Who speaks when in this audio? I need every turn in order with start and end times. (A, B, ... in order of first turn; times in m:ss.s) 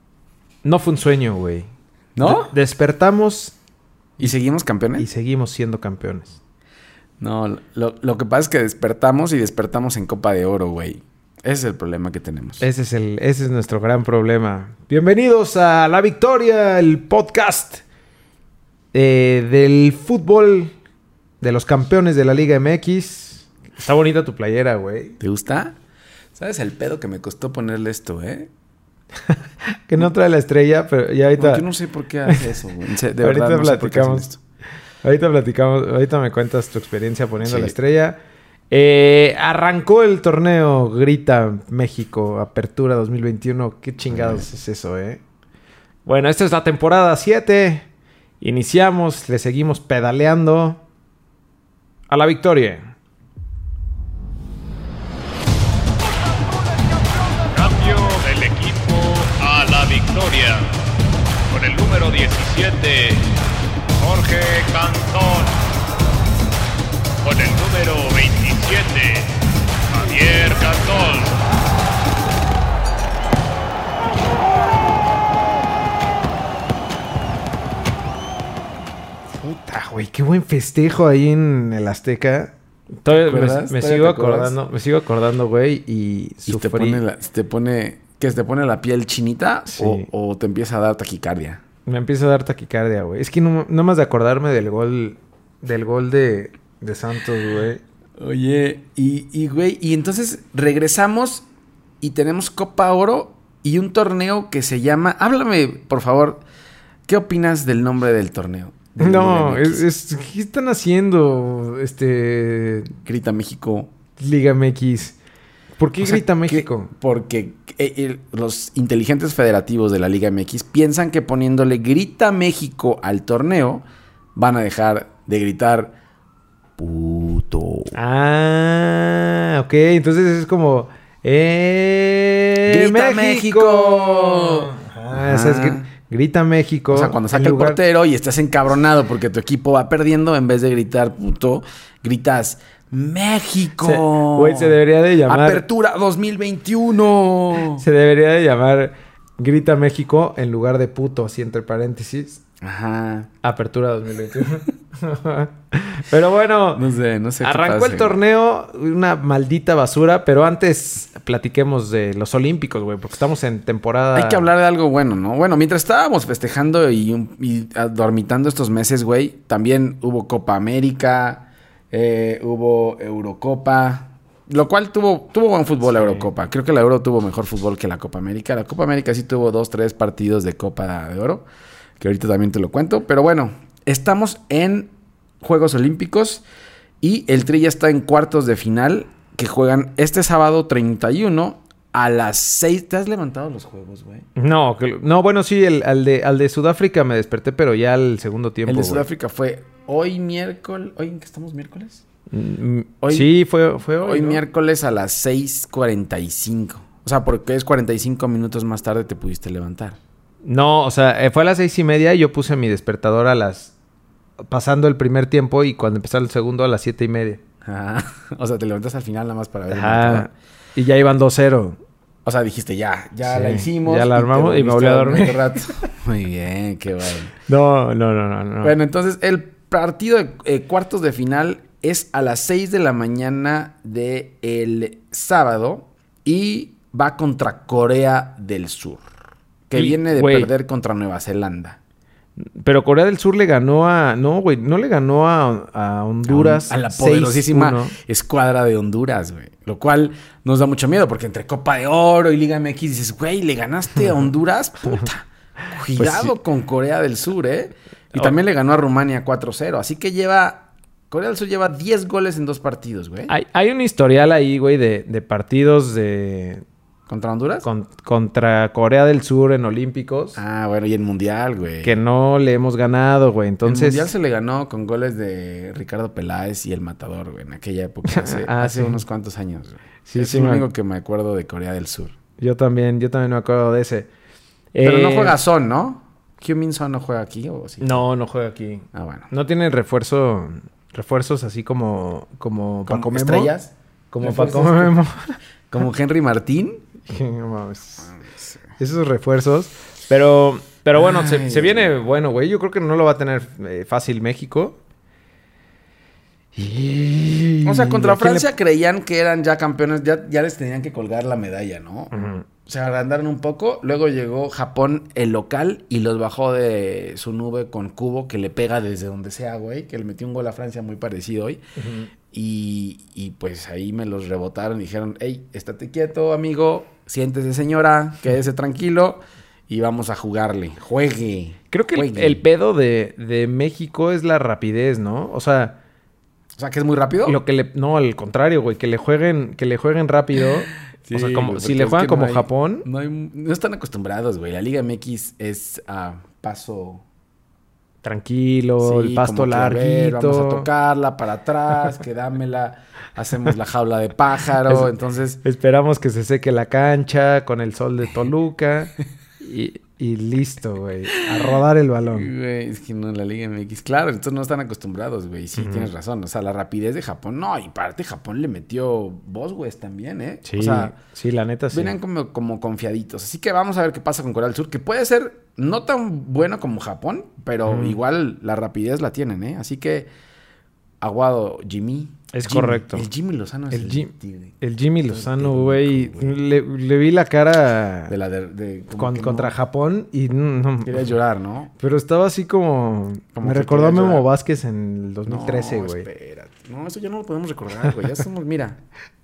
0:00.6-0:01.7 A
0:02.2-0:02.5 B
0:02.2-0:03.5 A
0:04.2-0:05.1 B
0:05.0-0:06.4 A
0:07.2-0:12.6 B
0:12.6-0:17.8 A
0:18.9-0:20.7 A
0:21.4-0:25.2 A
0:25.2-0:25.8 B
0:26.4-0:28.5 B
0:29.3-0:31.6 A
0:31.4-0:34.4 B
0:33.2-0:34.3 A
0:35.0-0:38.2 A
0:37.4-0:37.7 B
0:38.7-0:45.2 A
0:44.1-0:44.5 B
0:46.0-0:47.8 A
0:48.4-0:50.8 A
0:52.1-0:52.9 A
0:57.5-1:00.7 C
1:01.5-1:03.3 C
1:04.0-1:05.6 C
1:07.2-1:09.3 C
1:09.9-1:11.4 C
1:19.4-1:27.0 A
1:23.1-1:24.6 B
1:26.4-1:31.6 B
1:29.7-1:30.1 A
1:31.9-1:37.8 A
1:38.2-1:41.4 B
1:42.0-1:46.4 B
1:47.1-1:49.9 B
1:49.0-1:53.0 A
1:53.0-1:53.9 B
1:54.2-1:55.2 A
1:55.8-1:56.9 A
1:56.0-2:05.9 B
2:06.8-2:07.9 B
2:07.9-2:17.8 A
2:12.7-2:15.9 B
2:16.9-2:27.8 B
2:23.8-2:25.6 A
2:27.8-2:32.4 A
2:32.6-2:33.3 B
2:33.4-2:36.8 A
2:36.8-2:38.2 B
2:37.4-2:44.5 A
2:44.2-3:01.4 B
2:55.9-2:56.3 A
3:02.0-3:06.4 B
3:07.0-3:14.3 B
3:14.4-3:19.1 A
3:18.7-3:22.0 B
3:22.3-3:24.4 A
3:23.0-3:23.3 B
3:24.0-3:30.0 B
3:30.4-3:33.7 A
3:34.5-3:37.4 A
3:37.6-3:40.3 B
3:39.7-3:41.8 A
3:42.2-3:47.3 B
3:43.2-3:45.4 A
3:47.5-3:48.8 A
3:48.6-3:59.1 B
3:59.7-4:01.8 B
3:59.7-4:00.5 A
4:02.4-4:08.0 A
4:06.3-4:23.3 B
4:15.9-4:16.4 A
4:23.3-4:26.6 A
4:27.1-4:27.7 B
4:27.6-4:30.4 A
4:30.4-4:32.0 B
4:31.8-4:34.1 A
4:33.6-4:42.2 B
4:38.0-4:39.0 A
4:40.0-4:40.7 A
4:42.4-4:44.1 A
4:44.7-4:45.4 A
4:44.8-4:48.0 B
4:47.8-4:53.6 A
4:48.9-4:49.3 B
4:52.9-4:55.0 B
4:54.1-4:55.4 A
4:55.7-4:56.8 B
4:57.1-4:58.1 A
4:58.0-4:58.6 B
4:58.8-5:04.8 A
5:00.9-5:01.9 B
5:06.6-5:08.5 A
5:07.6-5:21.6 B
5:12.1-5:12.4 A
5:21.8-5:22.1 A
5:22.3-5:32.4 B
5:31.7-5:35.8 A
5:36.6-5:37.4 B
5:37.2-5:42.9 A
5:41.0-5:47.0 B
5:48.0-5:50.7 A
5:48.8-5:55.4 B
5:54.6-5:54.9 A
5:55.4-6:02.3 A
6:01.4-6:11.0 B
6:05.6-6:05.9 A
6:10.4-6:12.0 A
6:11.7-6:20.1 B
6:17.7-6:18.0 A
6:21.0-6:26.4 B
6:22.3-6:23.1 A
6:23.7-6:28.1 A
6:28.1-6:29.6 B
6:29.0-6:31.1 A
6:30.8-6:31.7 B
6:31.8-6:36.1 A
6:33.3-6:34.3 B
6:35.2-6:38.8 B